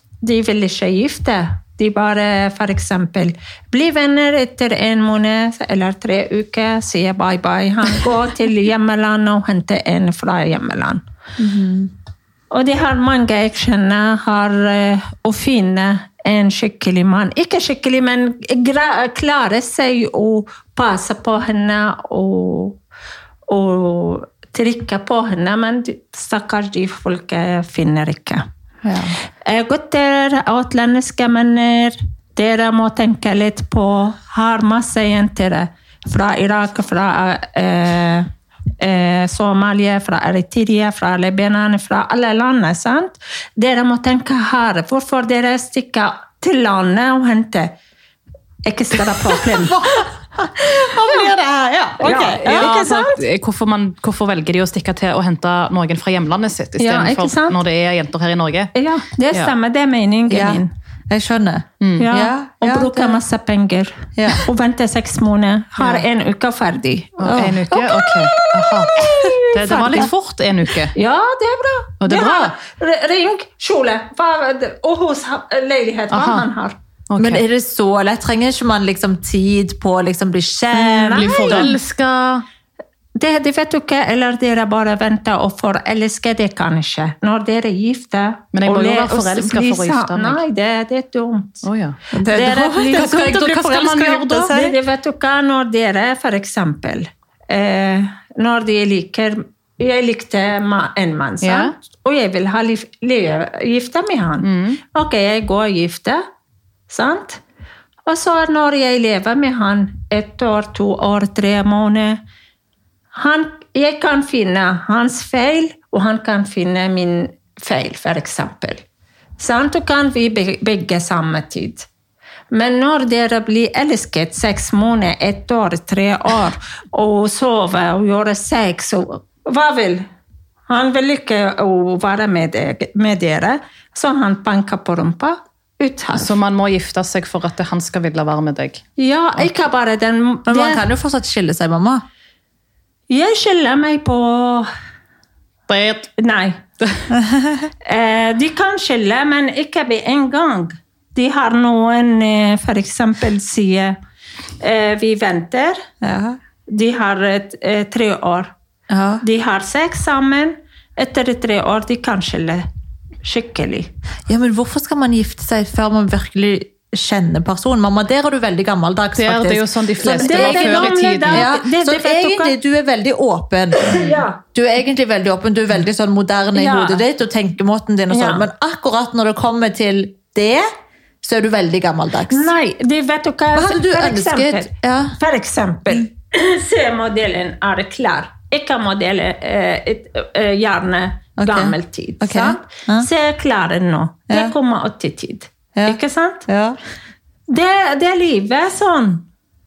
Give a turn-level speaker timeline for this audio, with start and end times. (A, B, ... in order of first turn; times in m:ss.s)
0:00.2-0:11.0 A
0:11.4-0:11.9 B
0:12.5-0:22.8 A
0:23.5-0:28.4 A
0:29.4-0:47.7 A
0:48.6-0:49.8 A
0:49.4-0:52.7 B
0:52.0-0:53.2 A
0:52.4-0:58.7 C
0:56.8-0:57.6 A
0:58.8-1:00.7 A
1:00.3-1:03.2 B
1:01.8-1:02.1 C
1:02.0-1:10.1 A
1:04.2-1:04.4 B
1:07.2-1:10.9 C
1:07.2-1:07.8 B
1:09.0-1:09.3 B
1:10.9-1:16.8 A
1:12.0-1:12.5 C
1:16.1-1:16.5 C
1:17.1-1:17.4 C
1:17.2-1:21.7 B
1:20.7-1:21.8 A
1:21.1-1:22.4 C
1:23.2-1:31.7 A
1:28.5-1:30.4 C
1:31.6-1:32.0 C
1:32.1-1:34.8 B
1:32.2-1:33.2 A
1:32.8-1:34.5 C
1:34.5-1:46.2 A
1:41.4-1:41.7 C
1:44.4-1:44.8 C
1:46.9-1:47.4 A
1:48.1-1:52.2 A
1:53.1-1:58.8 A
1:59.4-2:01.9 A
2:02.5-2:10.0 A
2:10.7-2:16.3 A
2:16.1-2:18.8 C
2:19.0-2:20.8 A
2:20.5-2:22.0 B
2:23.1-2:24.7 A
2:25.7-2:26.1 C
2:26.2-2:26.6 A
2:26.8-2:27.0 C
2:27.1-2:27.7 B
2:27.8-2:34.0 A
2:34.6-2:35.8 A
2:36.0-2:36.4 B
2:36.7-2:38.5 A
2:38.9-2:39.2 B
2:39.2-2:42.6 A
2:43.2-2:43.9 A
2:44.3-3:00.7 B
2:49.2-2:51.5 C
2:50.2-2:52.6 A
2:53.8-2:54.4 A
2:56.5-2:57.0 A
2:58.1-2:58.5 A
3:01.2-3:02.5 B
3:02.3-3:16.5 A
3:03.5-3:05.2 B
3:11.4-3:13.1 B
3:15.8-3:16.8 B
3:17.5-3:19.2 A